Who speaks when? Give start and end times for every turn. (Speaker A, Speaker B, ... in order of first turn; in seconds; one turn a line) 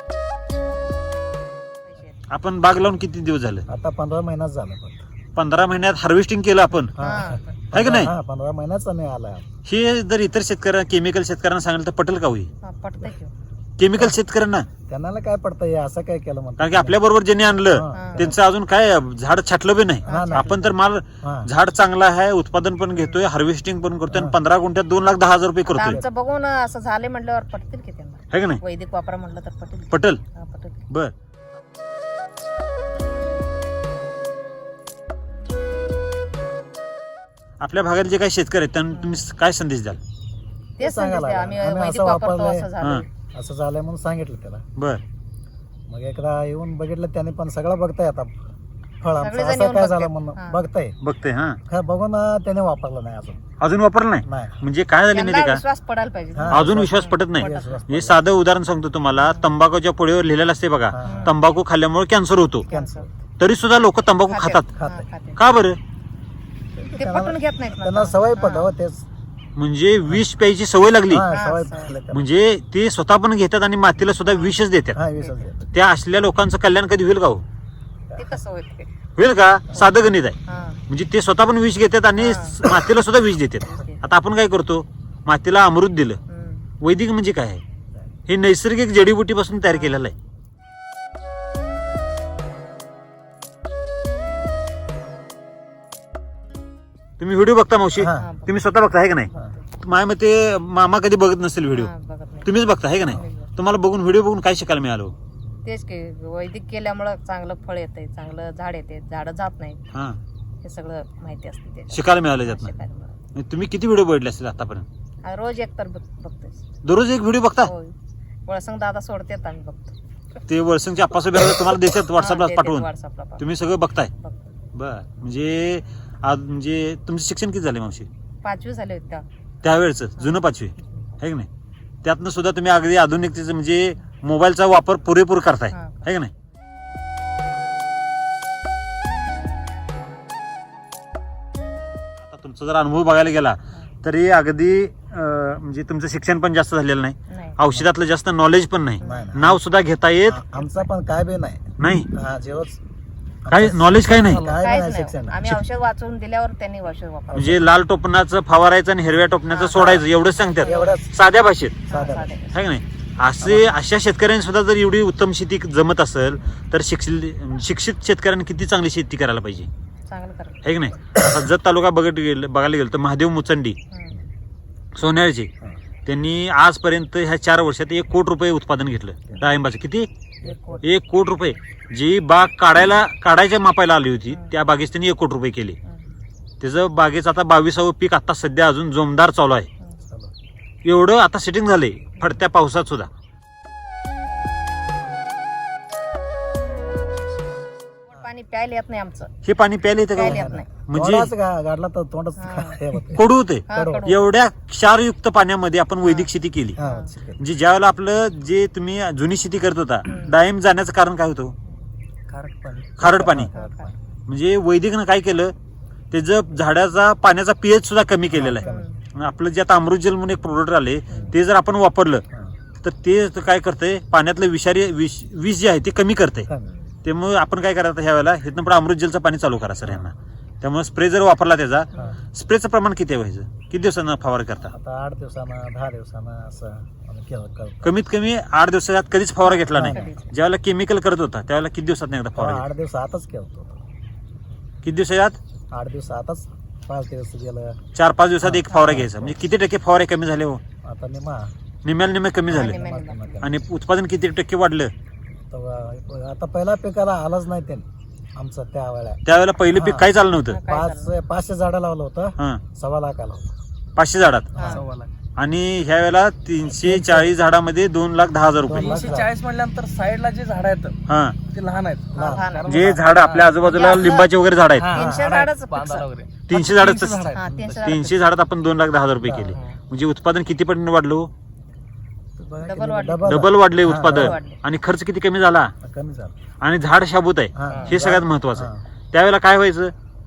Speaker A: 1.9-2.2
Speaker B: 2.3-3.7
Speaker C: 3.7-5.0
Speaker B: 5.4-7.0
Speaker A: 7.0-7.5
Speaker C: 7.0-9.5
Speaker B: 7.7-8.1
Speaker B: 9.7-12.5
Speaker A: 12.6-13.3
Speaker B: 13.8-14.7
Speaker C: 14.9-17.0
Speaker B: 16.6-26.0
Speaker C: 17.7-18.4
Speaker A: 17.9-18.3
Speaker C: 20.0-21.5
Speaker A: 20.1-20.6
Speaker C: 24.1-24.4
Speaker A: 25.7-30.8
Speaker B: 28.3-28.6
Speaker B: 29.9-30.2
Speaker B: 37.6-40.0
Speaker A: 39.0-39.3
Speaker A: 40.8-43.1
Speaker C: 40.8-42.7
Speaker C: 43.3-44.6
Speaker B: 44.8-45.0
Speaker C: 45.9-48.4
Speaker C: 49.0-51.0
Speaker A: 49.2-50.6
Speaker B: 51.0-51.6
Speaker C: 51.7-53.5
Speaker B: 53.6-55.6
Speaker C: 54.2-54.6
Speaker A: 55.1-57.8
Speaker C: 56.4-58.2
Speaker B: 56.5-62.7
Speaker A: 59.2-59.5
Speaker C: 60.9-61.3
Speaker A: 61.0-61.3
Speaker A: 62.7-63.1
Speaker C: 62.7-63.1
Speaker B: 63.4-64.7
Speaker A: 64.3-65.4
Speaker C: 64.8-65.1
Speaker B: 65.4-65.8
Speaker C: 66.7-69.1
Speaker A: 66.9-68.7
Speaker B: 69.6-71.3
Speaker C: 71.1-72.3
Speaker A: 71.3-71.9
Speaker B: 72.1-75.0
Speaker A: 74.3-74.5
Speaker C: 75.0-75.7
Speaker A: 75.2-75.5
Speaker B: 75.7-77.4
Speaker C: 78.1-78.4
Speaker A: 78.2-78.9
Speaker B: 79.2-86.2
Speaker A: 80.5-80.8
Speaker A: 82.2-82.6
Speaker A: 83.7-84.0
Speaker A: 86.3-86.7
Speaker B: 86.8-87.6
Speaker B: 88.3-90.2
Speaker B: 97.2-101.9
Speaker C: 98.0-98.3
Speaker A: 98.2-98.6
Speaker A: 101.7-103.5
Speaker B: 102.5-105.1
Speaker A: 105.7-109.8
Speaker A: 110.6-113.2
Speaker B: 111.9-112.7
Speaker B: 113.3-114.9
Speaker A: 115.2-116.6
Speaker B: 116.8-117.7
Speaker A: 117.7-117.9
Speaker A: 118.5-120.0
Speaker B: 120.5-122.9
Speaker A: 122.2-123.5
Speaker B: 123.4-124.1
Speaker A: 124.2-124.5
Speaker B: 124.7-128.1
Speaker A: 128.4-129.2
Speaker B: 129.6-131.5
Speaker B: 132.0-136.3
Speaker A: 135.7-136.1
Speaker B: 142.2-150.6
Speaker A: 147.3-147.6
Speaker C: 149.0-149.6
Speaker A: 149.0-149.3
Speaker C: 150.3-152.8
Speaker B: 151.8-152.1
Speaker C: 153.4-155.5
Speaker B: 153.5-154.4
Speaker D: 154.1-154.7
Speaker A: 154.6-157.7
Speaker B: 157.3-161.8
Speaker A: 159.5-160.0
Speaker C: 160.6-161.1
Speaker A: 160.6-161.0
Speaker A: 161.9-162.6
Speaker C: 161.9-162.3
Speaker B: 162.5-169.7
Speaker A: 170.1-170.6
Speaker B: 170.6-173.8
Speaker B: 175.0-175.5
Speaker B: 176.1-180.1
Speaker A: 180.4-180.8
Speaker C: 180.4-180.9
Speaker B: 180.8-185.8
Speaker B: 186.6-189.7
Speaker C: 190.1-190.3
Speaker B: 190.8-193.1
Speaker A: 198.1-199.3
Speaker B: 199.4-201.3
Speaker A: 200.2-200.7
Speaker C: 200.2-204.1
Speaker A: 202.4-202.8
Speaker B: 203.1-206.8
Speaker A: 203.7-204.2
Speaker A: 206.0-206.3
Speaker C: 206.8-207.4
Speaker A: 206.8-207.1
Speaker B: 207.4-211.6
Speaker A: 210.1-210.3
Speaker D: 212.3-212.9
Speaker B: 213.0-213.5
Speaker C: 213.0-214.0
Speaker A: 213.5-213.9
Speaker B: 214.3-215.5
Speaker B: 216.1-222.2
Speaker C: 218.3-218.8
Speaker A: 218.6-218.9
Speaker C: 221.1-221.4
Speaker B: 222.8-226.5
Speaker C: 226.5-226.8
Speaker B: 227.1-234.7
Speaker C: 234.7-237.9
Speaker B: 237.8-242.7
Speaker A: 239.4-240.3
Speaker C: 239.7-240.1
Speaker C: 242.4-243.8
Speaker B: 244.8-245.4
Speaker C: 245.7-247.8
Speaker B: 247.9-250.6
Speaker C: 248.4-249.4
Speaker C: 250.8-251.5
Speaker B: 251.8-252.8
Speaker A: 252.5-253.4
Speaker C: 252.5-253.5
Speaker B: 253.4-254.9
Speaker C: 255.5-259.2
Speaker B: 259.3-260.6
Speaker C: 259.7-260.1
Speaker A: 260.5-261.1
Speaker C: 260.6-263.6
Speaker B: 264.0-264.5
Speaker C: 264.5-264.8
Speaker D: 264.6-265.1
Speaker B: 265.4-269.1
Speaker C: 266.7-267.3
Speaker C: 268.6-269.3
Speaker D: 268.8-271.0
Speaker B: 271.1-271.4
Speaker D: 271.5-274.2
Speaker C: 272.1-273.0
Speaker A: 272.1-272.8
Speaker B: 272.7-275.0
Speaker A: 273.7-274.3
Speaker D: 274.8-277.5
Speaker A: 274.9-276.1
Speaker C: 274.9-275.3
Speaker B: 276.5-281.3
Speaker A: 277.4-278.1
Speaker C: 279.2-279.6
Speaker C: 282.4-284.4
Speaker A: 282.6-283.4
Speaker B: 283.2-285.7
Speaker A: 284.0-284.6
Speaker C: 285.8-286.4
Speaker B: 286.6-289.9
Speaker C: 287.6-288.8
Speaker D: 287.7-287.9